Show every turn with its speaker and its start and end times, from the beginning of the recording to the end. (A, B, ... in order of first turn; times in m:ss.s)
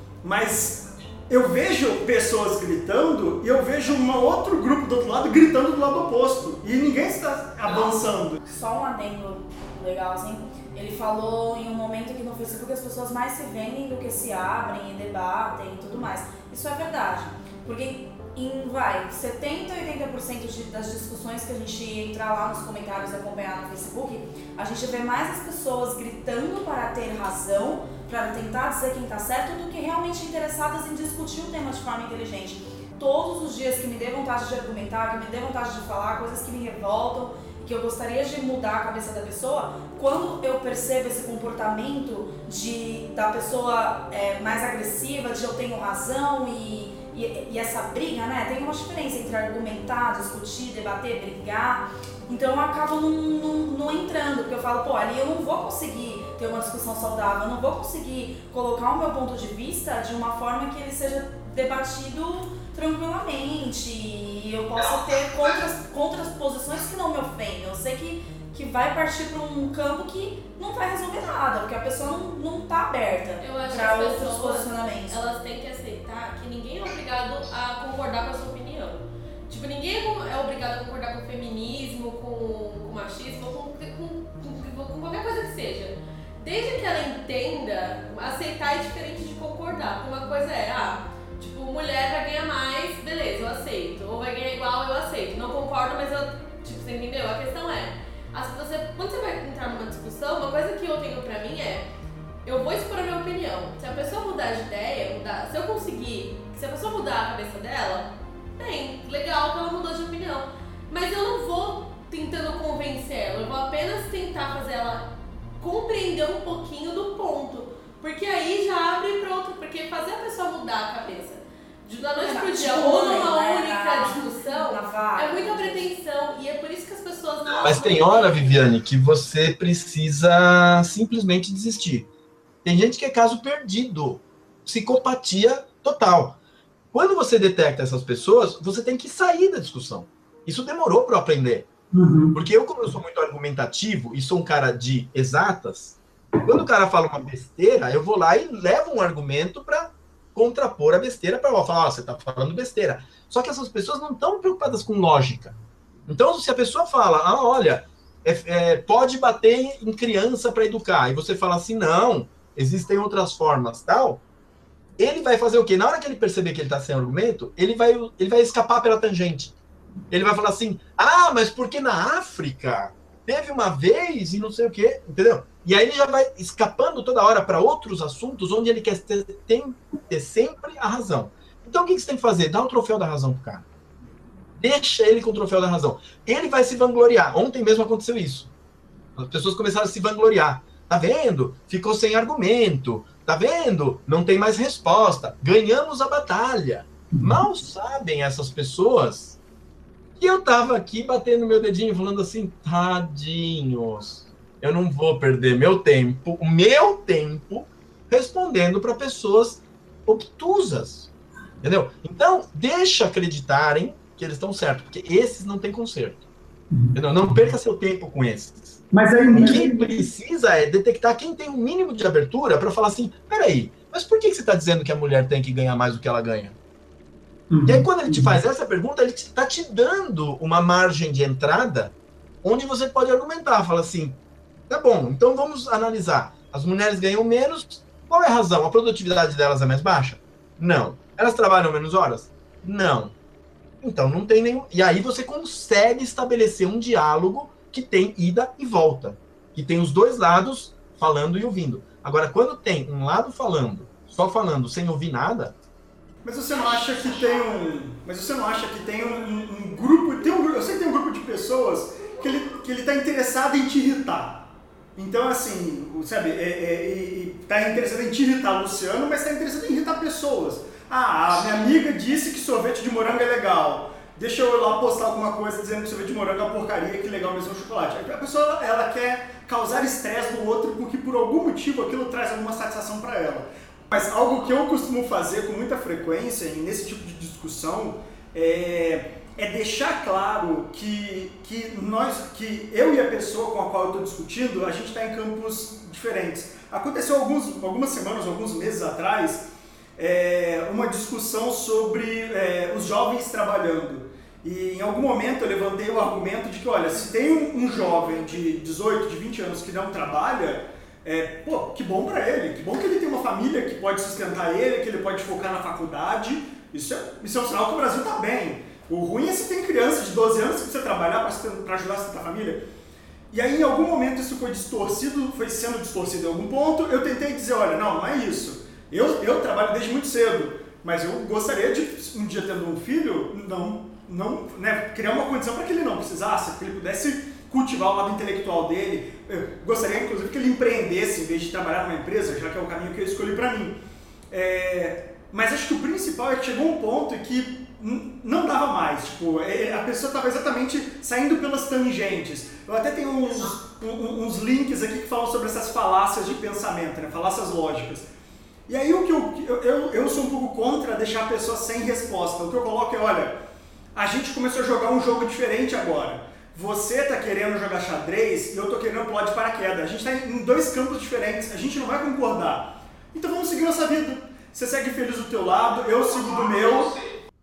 0:00.2-0:08.4 A
0:08.4-1:15.2 B
1:13.4-1:41.9 C
1:42.4-1:55.0 C
1:55.6-2:08.6 C
2:02.0-2:05.9 B
2:07.6-2:12.1 D
2:12.6-2:16.4 D
2:16.9-2:21.7 D
2:21.9-2:22.4 A
2:22.3-2:35.6 D
2:36.1-2:44.2 D
2:45.0-2:49.6 D
2:50.1-3:03.7 D
3:04.6-3:08.5 D
3:09.2-3:19.4 D
3:17.1-3:17.4 A
3:20.2-3:31.1 D
3:31.6-3:36.2 D
3:36.7-3:37.0 A
3:36.9-3:38.8 D
3:38.9-3:39.9 A
3:39.3-3:46.6 D
3:47.5-3:48.4 A
3:47.6-4:03.2 D
4:03.8-4:15.6 D
4:16.2-4:24.4 A
4:25.0-5:22.6 A
5:23.3-5:43.8 A
5:44.3-5:58.1 A
5:58.7-6:03.4 A
6:04.0-6:17.0 A